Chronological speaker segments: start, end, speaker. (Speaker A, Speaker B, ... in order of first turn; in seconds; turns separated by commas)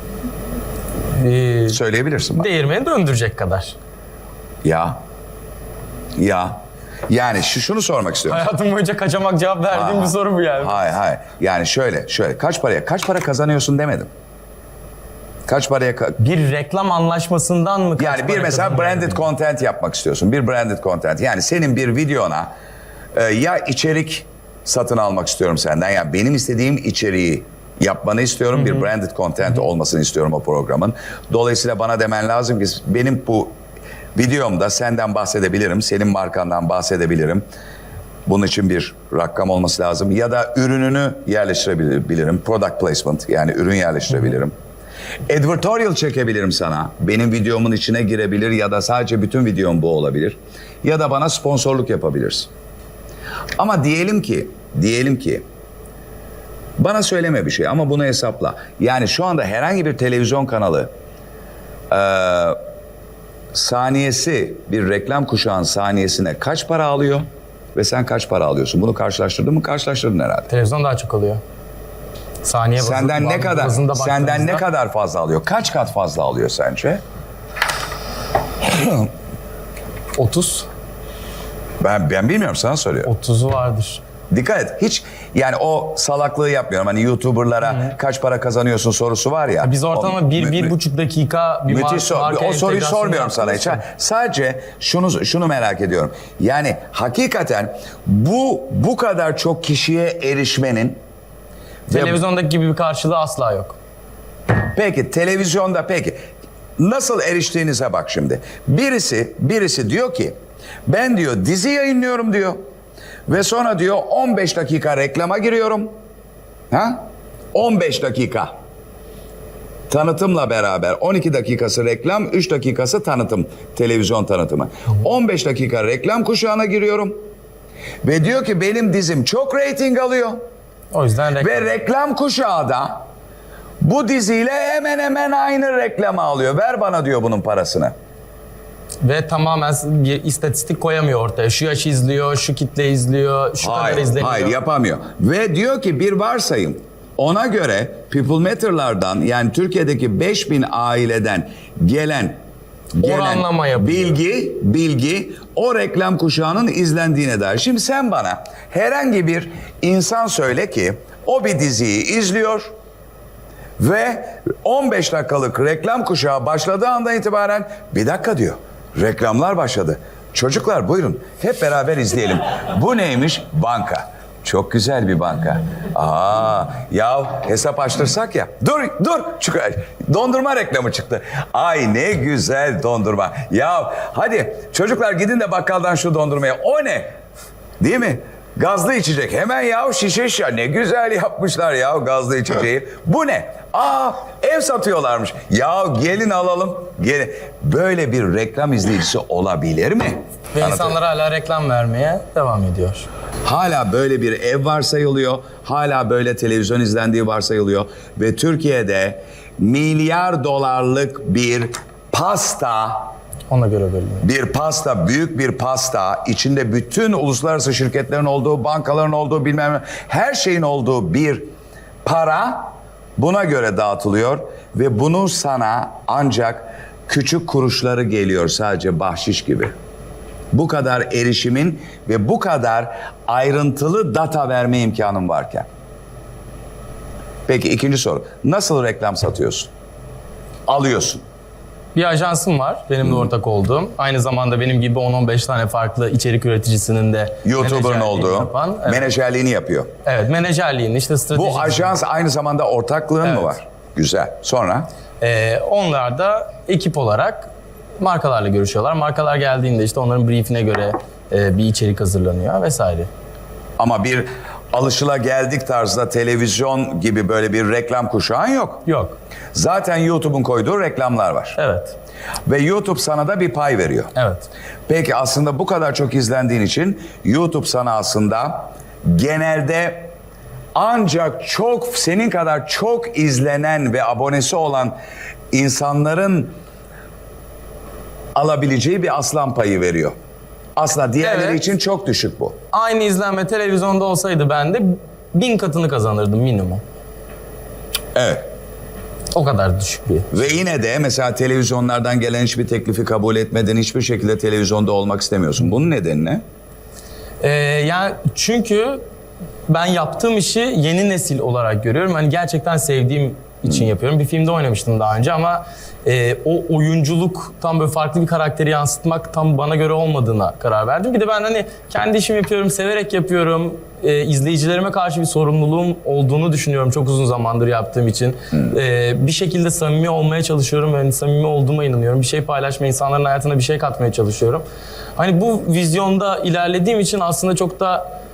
Speaker A: 1.1-1.8, Speaker B: 1.7-2.5, Speaker A: 2.4-3.8, Speaker B: 4.6-5.0, Speaker B: 6.2-8.4, Speaker A: 8.3-10.8, Speaker B: 9.7-14.1, Speaker B: 15.5-16.2, Speaker A: 16.2-19.2, Speaker B: 18.0-22.5, Speaker B: 23.1-33.5, Speaker B: 34.2-37.4, Speaker B: 38.3-44.5, Speaker B: 45.3-52.5, Speaker B: 53.6-55.4, Speaker B: 56.8-60.9, Speaker B: 61.9-62.6, Speaker B: 63.5-70.5, Speaker A: 70.5-71.4, Speaker A: 72.4-74.7, Speaker B: 72.8-77.0, Speaker B: 78.6-79.1, Speaker A: 80.2-80.7, Speaker B: 81.8-83.1, Speaker A: 83.0-84.0, Speaker B: 84.3-90.7, Speaker A: 89.6-93.8, Speaker B: 91.7-101.0, Speaker A: 101.9-103.8, Speaker B: 101.9-102.2, Speaker B: 104.7-106.2, Speaker B: 106.8-110.3, Speaker B: 110.9-112.6, Speaker B: 113.3-115.9, Speaker B: 116.7-117.0, Speaker B: 117.5-118.5, Speaker B: 119.9-127.2, Speaker B: 128.0-130.4, Speaker A: 130.9-131.8, Speaker B: 131.4-133.0, Speaker B: 133.8-137.9, Speaker A: 139.0-144.6, Speaker B: 143.6-152.3, Speaker B: 153.0-162.7, Speaker A: 153.0-154.2, Speaker B: 163.8-187.1, Speaker B: 187.8-200.9, Speaker A: 200.5-203.1, Speaker B: 203.4-213.1, Speaker A: 213.5-214.3, Speaker B: 214.2-221.4, Speaker B: 222.0-229.7, Speaker B: 230.5-235.7, Speaker B: 237.5-239.7, Speaker B: 240.7-241.2, Speaker A: 241.9-249.1, Speaker B: 247.4-249.9, Speaker A: 250.0-252.0, Speaker B: 251.3-254.9, Speaker A: 253.2-253.5, Speaker A: 255.2-263.1, Speaker B: 263.8-268.8, Speaker A: 268.9-269.2, Speaker B: 269.5-271.6, Speaker A: 271.6-272.0, Speaker B: 272.5-274.1, Speaker A: 274.1-274.5, Speaker B: 274.9-280.1, Speaker B: 280.8-284.9, Speaker B: 285.5-286.5, Speaker B: 288.4-290.1, Speaker B: 290.8-292.6, Speaker A: 291.2-291.6, Speaker A: 292.7-296.8, Speaker B: 298.1-298.5, Speaker A: 299.3-300.3, Speaker B: 300.3-306.4, Speaker A: 307.4-309.0, Speaker A: 309.7-334.6, Speaker A: 335.2-338.1